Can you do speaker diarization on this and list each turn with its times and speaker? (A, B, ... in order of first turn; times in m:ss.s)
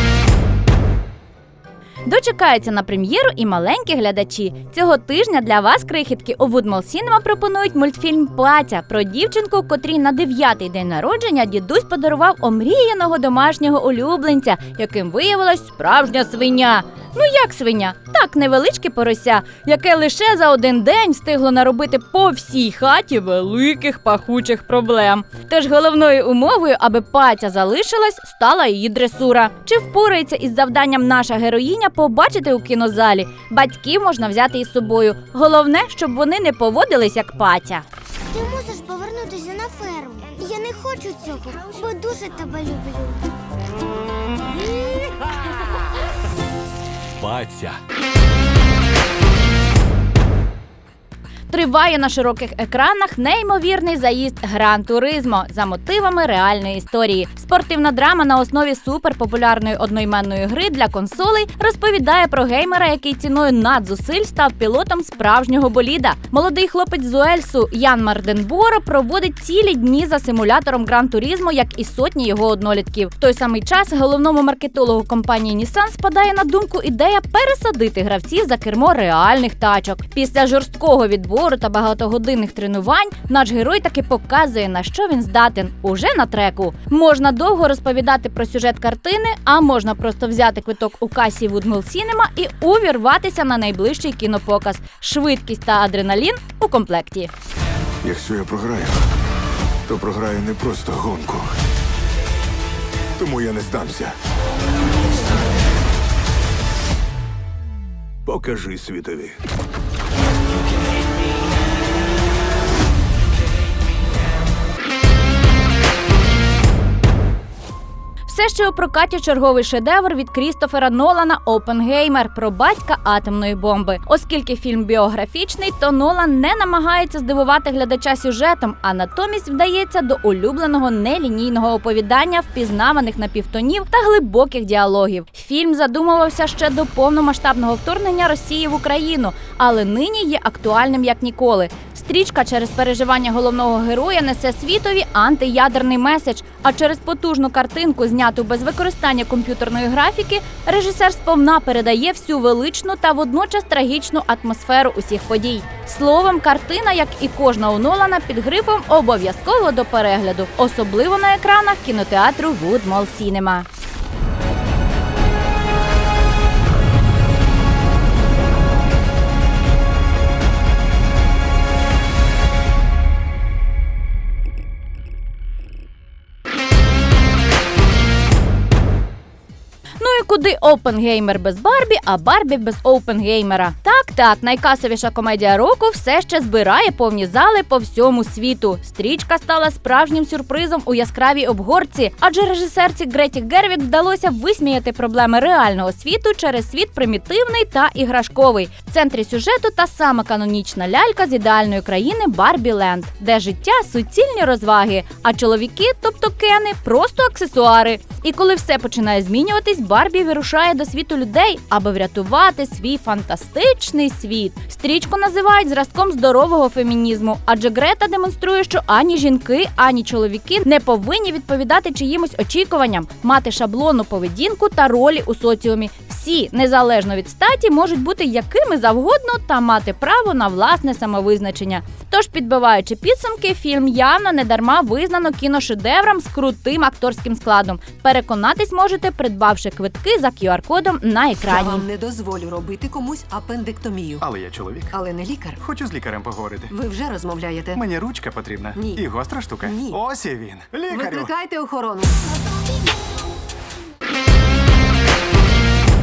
0:02.0-0:37.8 A
0:38.3-0:43.3 B
0:51.5-1:37.3 A
1:38.0-1:39.0 C
1:39.9-1:41.6 C
1:43.2-1:44.2 C
1:48.3-1:49.4 C
1:58.3-2:43.7 A
3:00.0-4:01.8 A
4:01.5-4:04.3 D
4:04.2-4:05.0 E
4:04.9-4:05.6 D
4:05.6-4:06.7 E
4:06.7-4:07.8 D
4:07.7-4:11.3 E
4:08.7-4:09.1 D
4:09.6-4:10.0 D
4:10.8-4:12.2 D